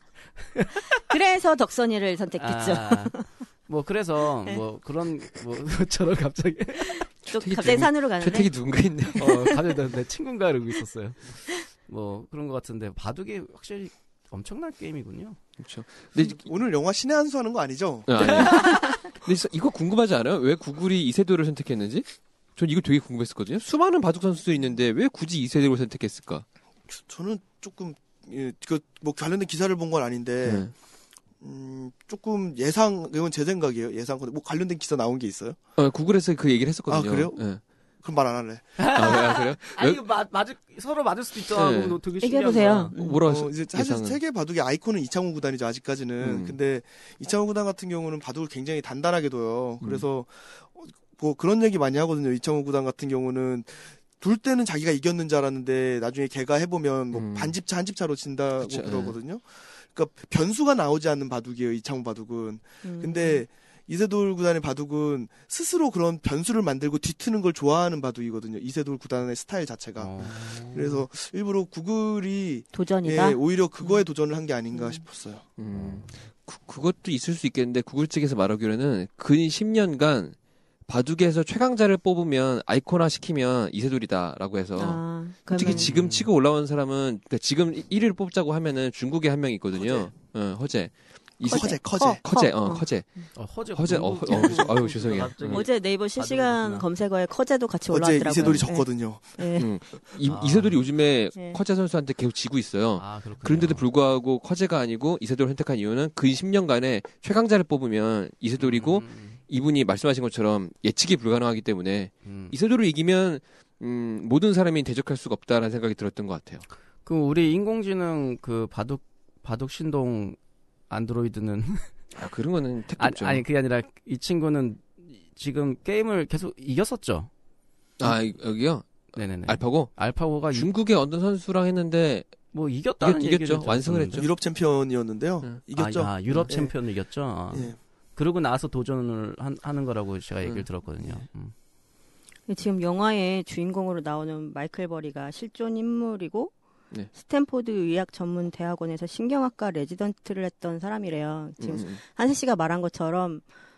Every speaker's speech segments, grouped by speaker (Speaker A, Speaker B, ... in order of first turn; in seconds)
Speaker A: 0.5-0.8, 2.4-7.1, 9.2-15.4, 18.2-19.0, 38.8-42.9, 70.0-71.0, 85.6-86.3, 93.3-96.9, 100.2-100.8, 102.9-103.9, 108.6-109.4, 112.2-112.5, 117.0-120.4, 120.9-121.9, 123.0-127.3, 129.1-130.7, 132.5-134.3, 135.8-141.5
Speaker B: 0.9-3.2, 7.2-8.6, 9.3-9.6, 42.2-43.2, 62.8-63.4, 72.7-74.0, 74.7-75.0, 84.8-85.9, 91.5-92.9, 94.3-94.5, 95.5-99.7, 101.3-101.6, 142.5-146.5, 147.1-153.4
Speaker C: 7.3-9.4, 15.6-16.4, 18.1-26.4, 30.4-30.7, 35.8-37.6, 38.9-40.0, 41.5-42.0, 42.9-44.2, 46.2-46.5, 57.1-57.6, 58.6-59.2, 75.6-80.3, 80.9-95.7, 98.4-98.7, 99.5-116.6, 122.1-123.4, 128.0-132.3, 133.0-134.3, 151.6-152.0
Speaker D: 16.1-18.5, 26.9-30.7, 31.4-35.6, 36.9-37.4, 38.0-38.7, 43.2-75.4, 89.8-90.1, 91.5-92.2, 97.9-99.4, 134.2-136.8, 137.5-137.8